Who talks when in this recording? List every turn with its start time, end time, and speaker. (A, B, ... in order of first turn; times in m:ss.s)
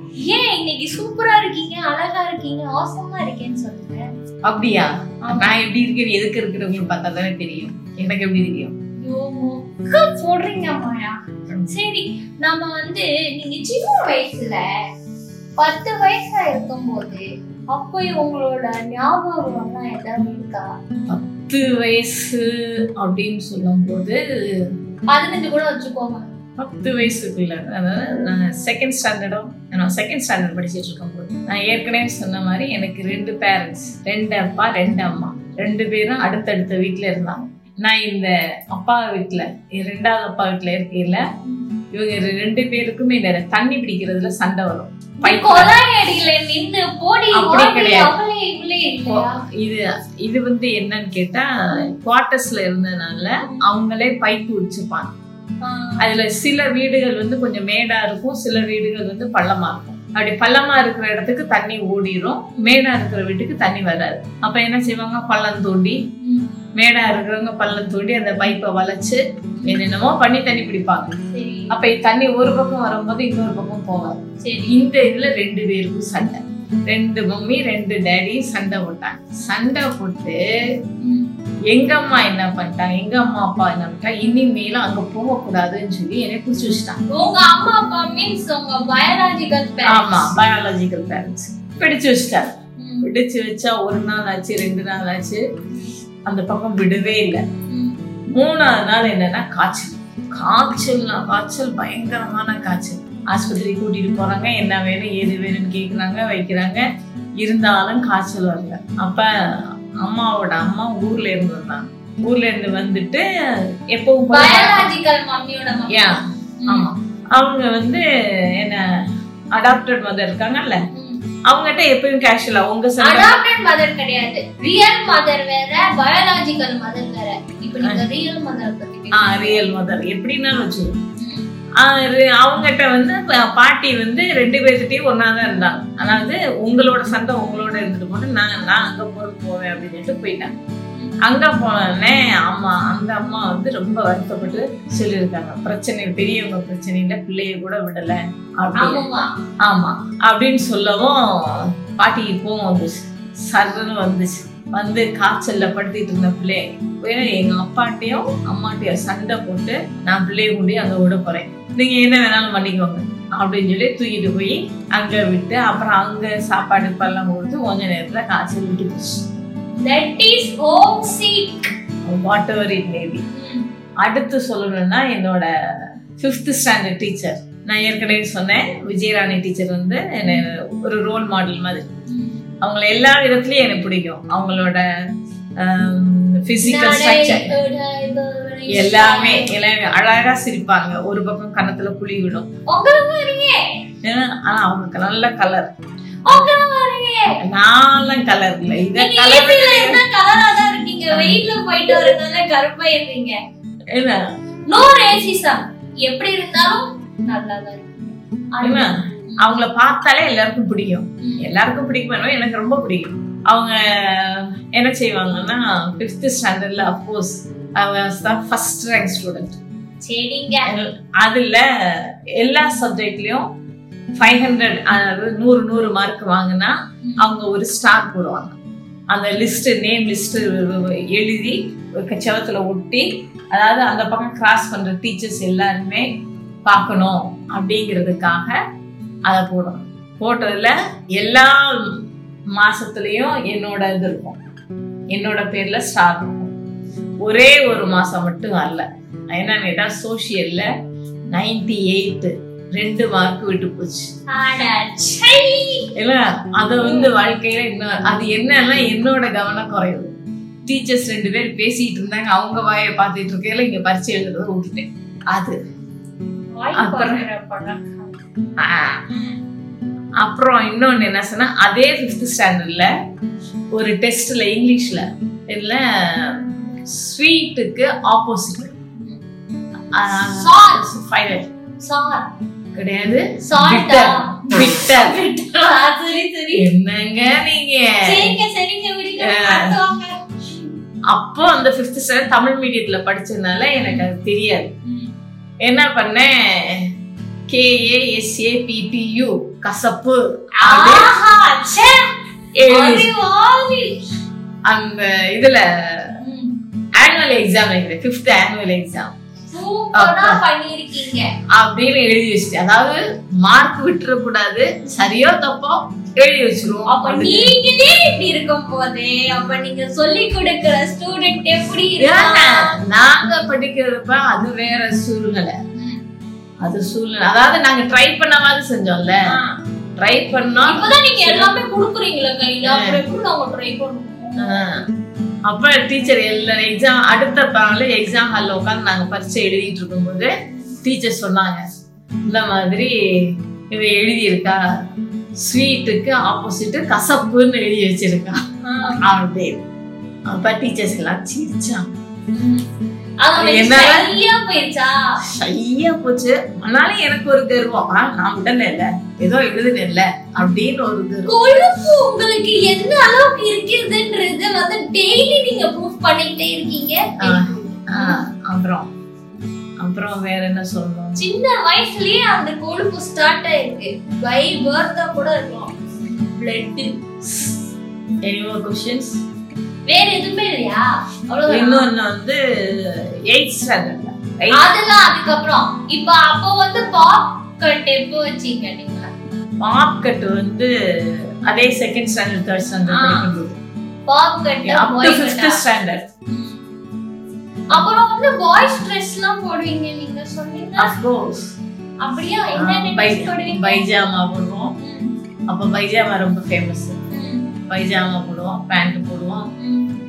0:00.2-0:04.1 A
0:04.5-0:08.7 B
0:05.2-0:05.6 A
0:09.0-0:11.1 A
0:11.7-0:14.6 A
0:15.6-0:20.7 A
0:21.1-0:24.2 B
0:25.1-0:26.3 A
0:26.6-0:41.2 B
0:41.4-0:41.7 A
0:41.9-0:45.7 B
0:45.2-0:49.4 A
0:47.3-0:48.1 B
0:49.1-0:55.1 B
0:55.6-0:56.0 A
0:56.0-1:06.0 B
1:06.2-1:06.5 A
1:06.8-1:11.1 B
1:11.3-1:11.7 A
1:11.7-1:20.4 B
1:14.4-1:14.8 A
1:21.0-1:21.3 A
1:21.7-1:27.0 B
1:27.1-1:30.3 A
1:29.9-1:35.4 B
1:32.8-1:33.1 A
1:36.3-1:37.4 B
1:37.7-1:38.0 A
1:38.3-1:46.8 B
1:47.4-1:53.2 B
1:53.9-1:54.9 B
1:54.3-1:56.9 A
1:55.9-1:56.2 B
1:56.7-1:58.8 B
1:59.6-2:00.8 B
2:00.9-2:01.2 A
2:01.5-2:03.4 B
2:03.0-2:09.6 A
2:09.1-2:10.9 B
2:11.2-2:11.4 A
2:11.8-2:20.5 B
2:21.2-2:29.0 B
2:28.8-2:29.3 A
2:29.6-2:49.2 B
2:49.8-2:51.7 A
2:52.0-2:53.2 B
2:53.3-2:53.7 A
2:54.0-2:55.5 B
2:56.2-3:01.9 B
3:02.1-3:02.4 A
3:02.6-3:04.8 B
3:05.6-3:07.5 B
3:06.6-3:09.5 A
3:08.7-3:12.5 B
3:12.7-3:13.6 A
3:14.0-3:15.7 B
3:16.3-3:17.4 A
3:17.4-3:20.0 B
3:19.0-3:23.4 A
3:21.1-3:21.4 B
3:23.9-3:24.2 B
3:24.7-3:29.5 A
3:28.6-3:28.9 B
3:29.4-3:39.6 B
3:31.2-3:31.5 A
3:40.0-3:40.7 A
3:40.7-3:43.5 B
3:44.2-3:48.6 B
3:49.1-3:56.1 B
3:56.7-3:58.6 B
3:59.3-4:04.4 B
4:05.1-4:06.5 B
4:07.2-4:10.7 B
4:11.3-4:14.1 B
4:14.3-4:15.9 A
4:16.0-4:20.1 B
4:16.8-4:17.1 A
4:20.6-4:25.6 B
4:26.6-4:28.2 A
4:26.8-4:27.3 B
4:28.6-4:29.0 B
4:30.2-4:32.9 B
4:33.7-4:38.8 B
4:39.9-4:41.5 B
4:40.3-4:40.8 A
4:41.8-4:42.3 A
4:42.8-4:45.2 B
4:43.5-4:46.7 A
4:46.6-4:48.3 B
4:48.0-4:50.7 A
4:49.2-4:49.8 B
4:51.1-4:54.7 B
4:53.8-4:54.0 A
4:54.9-4:55.1 A
4:55.6-4:56.8 B
4:57.5-5:01.2 B
5:00.6-5:02.0 A
5:02.6-5:03.1 B
5:02.7-5:03.9 A
5:04.7-5:05.6 B
5:06.2-5:06.5 A
5:07.0-5:09.1 B
5:09.5-5:11.3 A
5:10.0-5:10.4 B
5:11.6-5:17.5 B
5:16.9-5:22.8 A
5:22.0-5:25.5 B
5:25.8-5:26.0 A
5:26.6-5:29.2 B
5:30.0-5:31.5 B
5:30.7-5:34.6 A
5:32.6-5:33.0 B
5:34.4-5:34.8 B
5:35.5-5:40.3 B
5:40.8-5:41.6 B
5:42.3-5:43.0 B
5:43.7-5:44.6 B
5:45.4-5:49.6 B
5:48.6-5:49.0 A
5:50.3-5:51.9 B
5:52.3-5:52.6 A
5:53.2-5:54.9 A
5:53.4-5:54.2 B
5:55.3-6:01.4 B
6:01.3-6:08.2 A
6:07.2-6:08.9 B
6:09.8-6:11.2 B
6:11.2-6:17.0 A
6:18.2-6:19.2 B
6:19.9-6:21.9 A
6:21.5-6:24.7 B
6:24.5-6:29.1 A
6:29.6-6:30.7 B
6:31.5-6:33.5 B
6:32.9-6:33.3 A
6:34.1-6:35.6 A
6:34.6-6:36.0 B
6:36.3-6:36.6 A
6:37.7-6:40.9 A
6:40.8-6:41.4 B
6:42.0-6:43.9 A
6:42.6-6:44.7 B
6:44.8-6:45.2 A
6:45.5-6:47.0 B
6:47.1-6:47.5 A
6:47.7-6:49.5 B
6:49.6-6:49.9 A